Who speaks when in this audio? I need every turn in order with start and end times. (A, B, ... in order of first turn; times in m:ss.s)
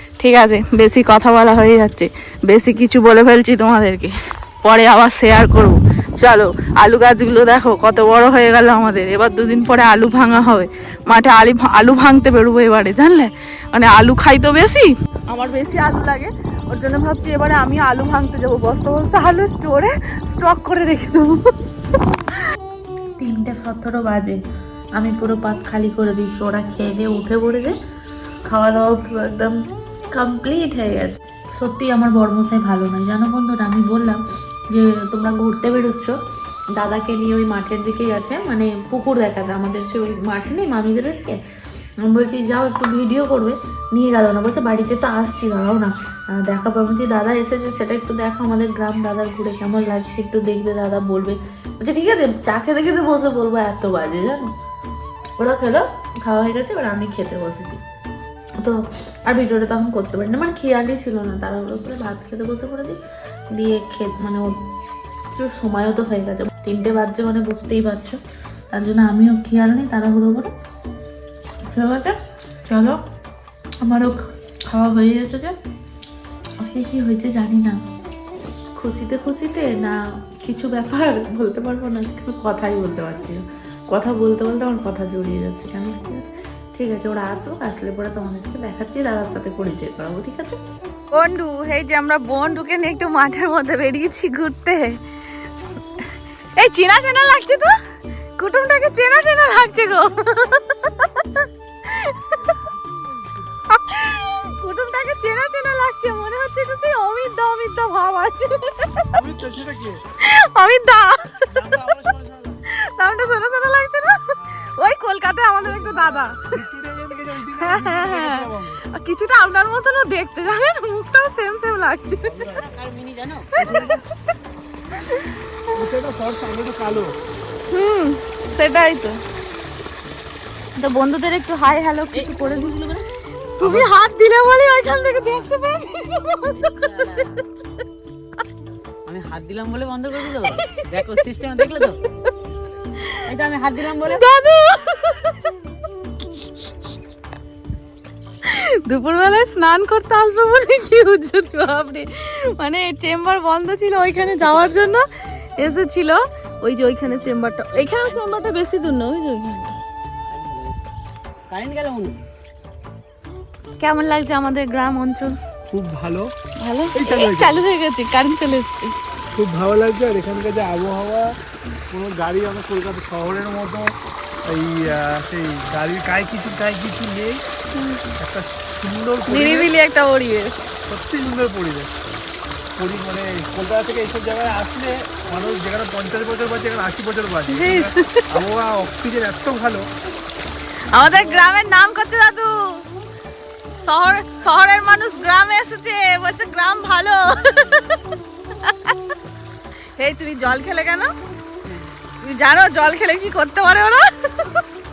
0:00.2-0:04.1 A
0:04.6-0:21.5 A
0:23.2-0:24.4 A
0:25.0-0:27.8 A
0:28.5-0:29.6 A
0:30.1-0:36.2 A
0:36.8-0:41.4 A
0:42.0-0:54.5 A
0:55.4-0:57.8 A
0:58.6-1:03.0 A
1:03.5-1:04.5 A
1:05.4-1:08.2 A
1:08.7-1:10.5 A
1:11.7-1:12.2 A
1:12.7-1:13.0 A
1:13.8-1:15.5 A
1:16.6-1:17.8 A
1:18.8-1:30.6 A
1:31.1-1:35.0 A
1:36.6-1:37.8 A
1:38.4-1:42.6 A
1:43.7-1:49.1 A
1:49.1-1:50.0 B
1:50.2-1:51.6 A
1:51.5-1:52.6 B
1:52.7-1:56.4 A
1:55.6-1:58.8 B
1:57.6-2:02.4 A
2:02.2-2:02.7 B
2:02.4-2:03.9 C
2:03.5-2:04.0 A
2:03.6-2:04.0 B
2:04.9-2:05.4 A
2:05.8-2:07.2 B
2:07.7-2:09.2 A
2:10.8-2:13.0 A
2:12.1-2:12.7 C
2:13.6-2:17.6 A
2:13.6-2:13.9 B
2:16.5-2:17.4 C
2:19.1-2:22.0 C
2:20.3-2:20.8 A
2:23.2-2:24.2 C
2:23.9-2:25.6 A
2:28.4-2:39.8 A
2:34.4-2:35.5 C
2:37.0-2:38.5 C
2:40.3-2:40.8 C
2:41.5-2:42.2 C
2:43.8-2:45.4 A
2:45.7-2:46.3 B
2:46.6-2:48.9 A
2:47.0-2:47.6 B
2:49.3-2:51.3 B
2:51.9-2:53.9 B
2:54.5-2:57.4 B
2:57.8-2:58.0 A
2:58.2-2:59.7 B
2:59.2-3:00.5 A
3:00.9-3:01.9 B
3:02.8-3:09.9 B
3:07.5-3:08.3 A
3:10.9-3:12.5 A
3:11.0-3:11.5 B
3:13.8-3:19.0 A
3:20.0-3:21.1 A
3:21.6-3:22.0 C
3:22.2-3:24.6 A